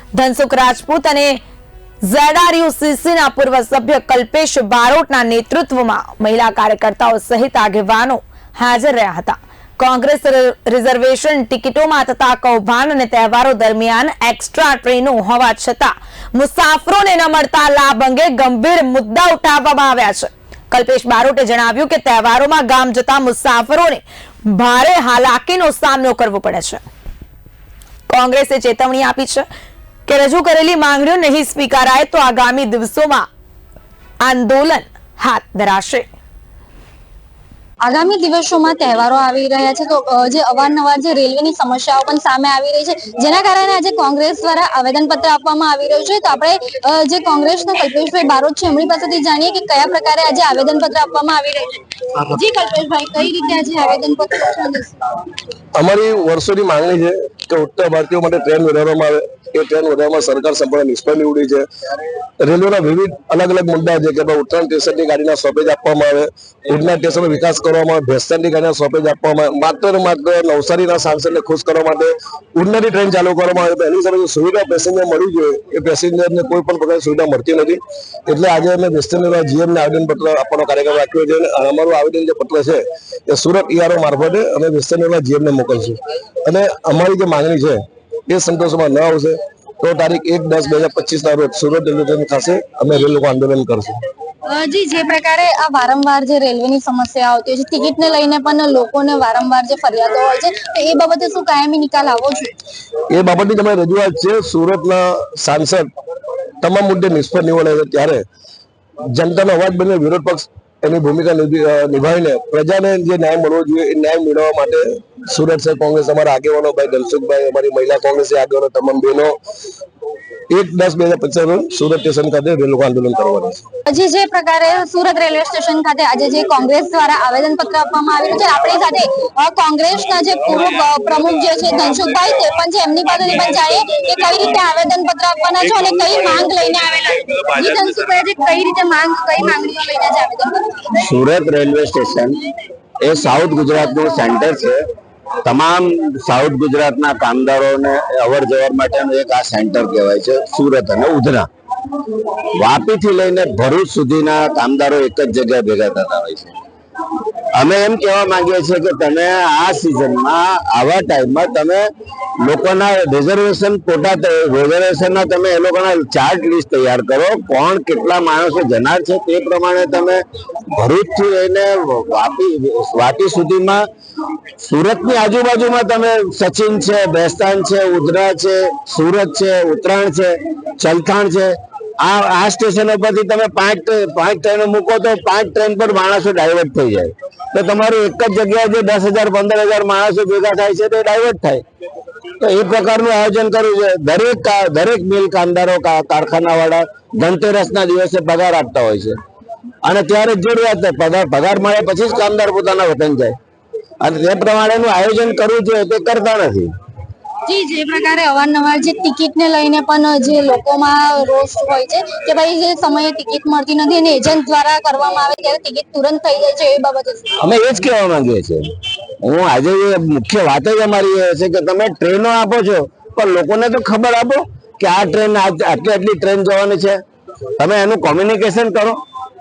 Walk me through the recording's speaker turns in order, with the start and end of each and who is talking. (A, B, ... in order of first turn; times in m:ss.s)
0:00.2-0:01.4 A
0:02.0-0:26.8 A
0:28.1-0:29.4 A
0:30.1-0:33.3 A
0:34.2-0:36.1 A
0:37.8-0:55.0 B
0:55.8-1:01.6 C
1:02.4-1:34.0 C
1:34.5-1:42.5 B
1:43.1-1:45.9 C
1:46.6-1:48.2 C
1:49.2-1:59.4 C
2:00.5-2:03.6 C
2:03.9-2:21.0 B
2:21.0-2:22.4 D
2:23.0-2:24.8 D
2:25.4-2:31.5 D
2:32.5-2:36.6 D
2:37.5-2:41.9 D
2:42.4-2:53.8 D
2:54.6-3:11.6 D
3:12.4-3:19.2 D
3:19.8-3:23.4 D
3:24.0-3:26.7 D
3:27.5-3:37.3 B
3:37.4-3:38.6 D
3:39.2-3:47.0 D
3:47.6-3:49.0 D